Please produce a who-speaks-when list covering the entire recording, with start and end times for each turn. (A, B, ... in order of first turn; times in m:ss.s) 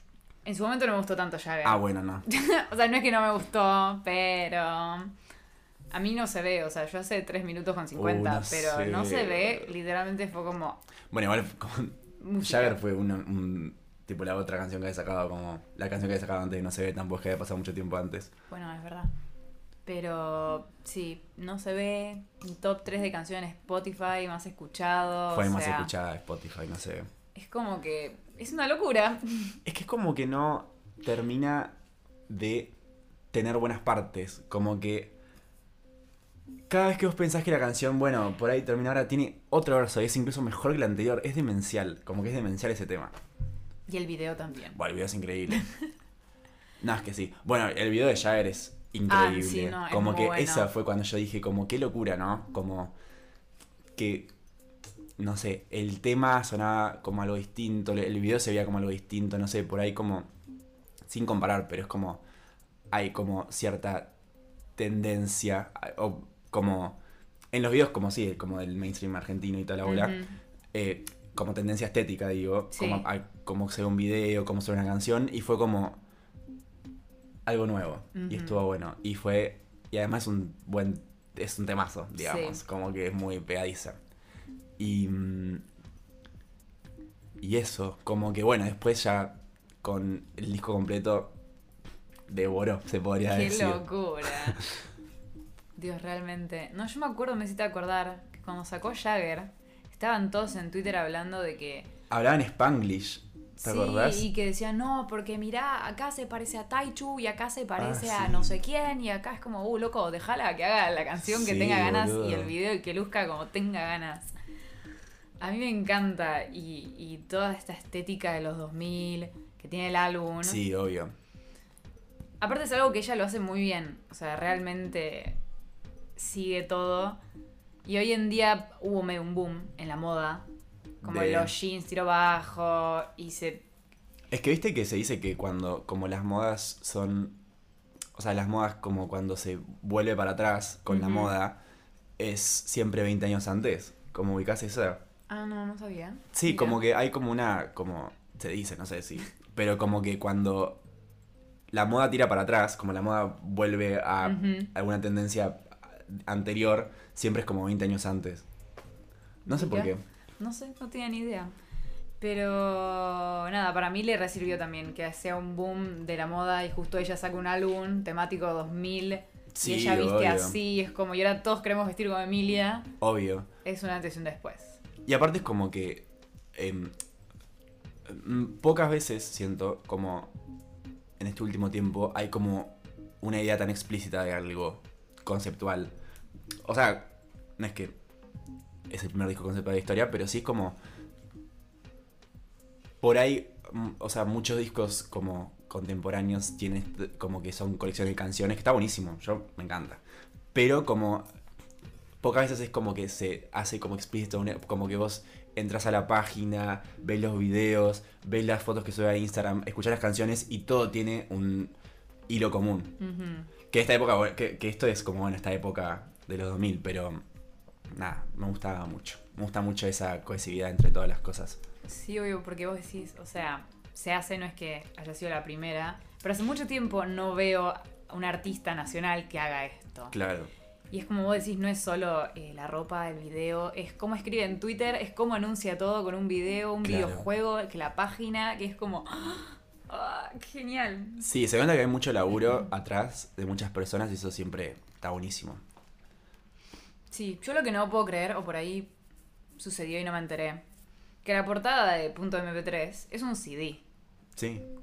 0:00.4-0:05.1 A
0:01.6-0:02.2 B
0:05.9-0:10.8 A
0:07.9-0:09.7 B
0:11.1-0:18.3 B
0:12.2-0:12.8 A
0:18.5-0:19.1 A
0:19.8-0:25.9 A
0:25.3-0:27.1 B
0:27.3-0:29.6 A
0:29.6-0:31.8 B
0:32.3-0:32.7 B
0:33.3-0:35.1 B
0:36.7-0:43.1 B
0:43.9-0:44.8 A
0:44.7-0:45.6 B
0:45.5-0:45.9 A
0:46.8-0:52.9 B
0:49.1-0:50.7 A
0:53.9-0:54.3 B
0:55.2-1:00.3 B
1:01.0-1:02.2 B
1:02.9-1:04.1 B
1:04.8-1:07.0 B
1:07.5-1:10.2 B
1:09.8-1:10.4 A
1:10.7-1:16.0 B
1:12.7-1:13.0 A
1:17.4-1:24.0 B
1:18.1-1:18.6 A
1:22.2-1:22.6 A
1:24.8-1:25.6 B
1:27.4-1:31.3 B
1:32.3-1:34.5 B
1:33.2-1:34.6 A
1:35.8-1:41.9 A
1:42.1-1:44.2 B
1:43.6-1:54.3 A
1:47.8-1:48.5 B
1:51.2-1:52.5 B
1:55.4-2:00.6 A
2:00.4-2:01.1 B
2:02.4-2:05.4 A
2:06.2-2:07.2 A
2:07.8-2:10.5 A
2:11.0-2:13.6 A
2:11.0-2:11.5 B
2:14.3-2:17.4 B
2:18.1-2:21.6 B
2:20.9-2:21.3 A
2:22.2-2:25.0 B
2:25.3-2:26.8 A
2:26.3-2:30.8 B
2:31.7-2:38.4 B
2:34.2-2:34.7 A
2:39.5-2:40.0 B
2:39.5-2:41.5 A
2:42.2-2:52.9 A
2:49.5-2:50.6 B
2:53.0-2:53.5 B
2:53.6-2:54.8 A
2:55.0-2:56.9 B
2:58.0-3:00.3 B
3:01.2-3:05.9 B
3:06.6-3:07.9 B
3:08.9-3:10.8 B
3:13.0-3:20.0 B
3:20.5-3:21.2 B
3:22.2-3:31.7 B
3:32.3-3:33.0 B
3:33.0-3:33.5 A
3:33.7-3:37.2 B
3:37.9-3:41.6 B
3:41.8-3:50.2 A
3:50.1-3:50.5 B
3:50.9-4:01.2 A
3:56.8-3:57.2 B
4:01.2-4:05.6 B
4:07.1-4:08.9 A
4:09.6-4:10.6 A
4:11.2-4:13.8 A
4:14.4-4:14.7 B